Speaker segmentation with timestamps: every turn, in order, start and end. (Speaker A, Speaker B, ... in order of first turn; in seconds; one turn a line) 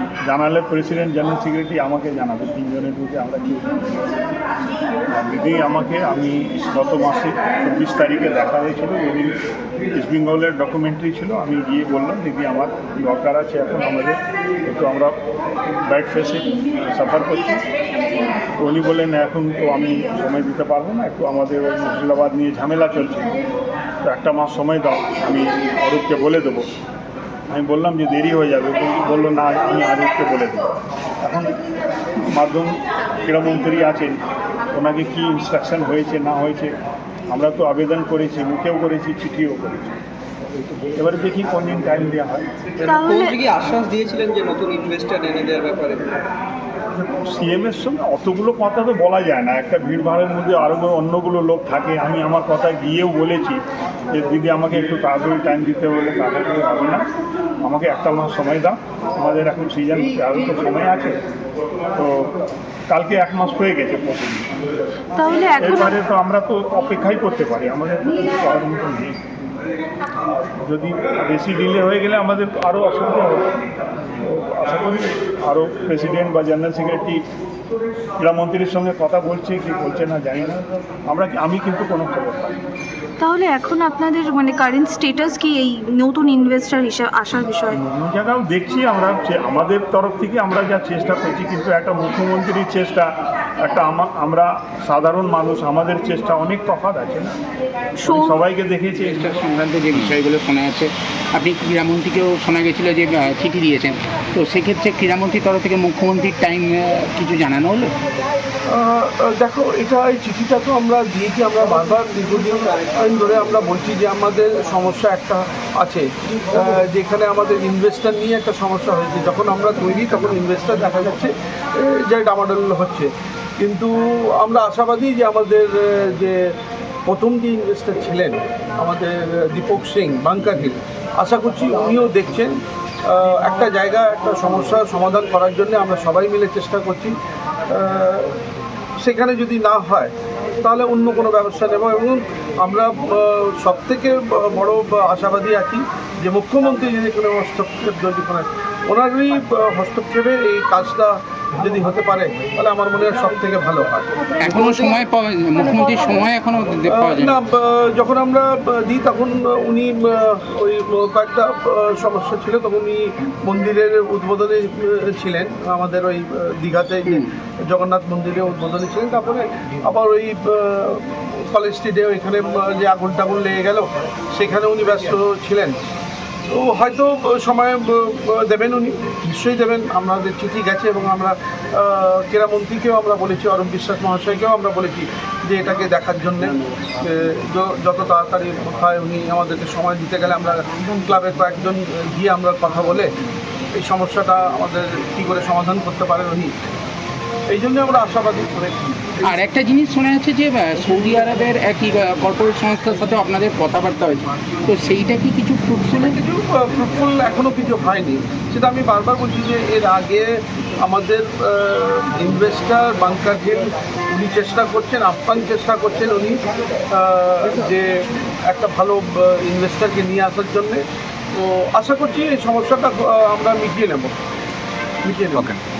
Speaker A: 0.2-4.1
Speaker A: 5.1-9.4
Speaker A: 9.9-15.2
Speaker A: 15.8-17.6
Speaker A: 18.6-23.3
Speaker A: 24.0-26.7
Speaker A: 27.5-30.7
Speaker A: 31.2-31.6
Speaker A: 32.3-34.2
Speaker A: 34.7-36.7
Speaker A: 37.3-40.0
Speaker A: 41.0-42.5
Speaker B: 42.8-46.2
Speaker C: 42.9-43.4
Speaker A: 46.9-57.1
Speaker A: 57.6-61.2
Speaker A: 62.0-62.3
Speaker A: 62.9-64.5
Speaker C: 65.2-65.9
Speaker A: 65.6-69.2
Speaker A: 70.5-73.5
Speaker A: 74.2-77.2
Speaker A: 78.2-82.6
Speaker C: 83.2-87.8
Speaker A: 87.7-97.3
Speaker C: 98.0-98.4
Speaker A: 98.0-99.3
Speaker D: 99.0-107.9
Speaker E: 108.7-126.4
Speaker E: 127.1-137.1
Speaker E: 137.7-138.4
Speaker E: 139.0-154.9
Speaker D: 154.4-157.4
Speaker E: 156.8-175.8
Speaker E: 176.5-193.1
Speaker E: 193.8-196.5
Speaker E: 197.5-199.4
Speaker D: 199.2-206.2
Speaker E: 205.9-210.3
Speaker E: 210.8-216.4
Speaker E: 216.9-220.8
Speaker E: 221.3-224.1
Speaker E: 225.0-225.5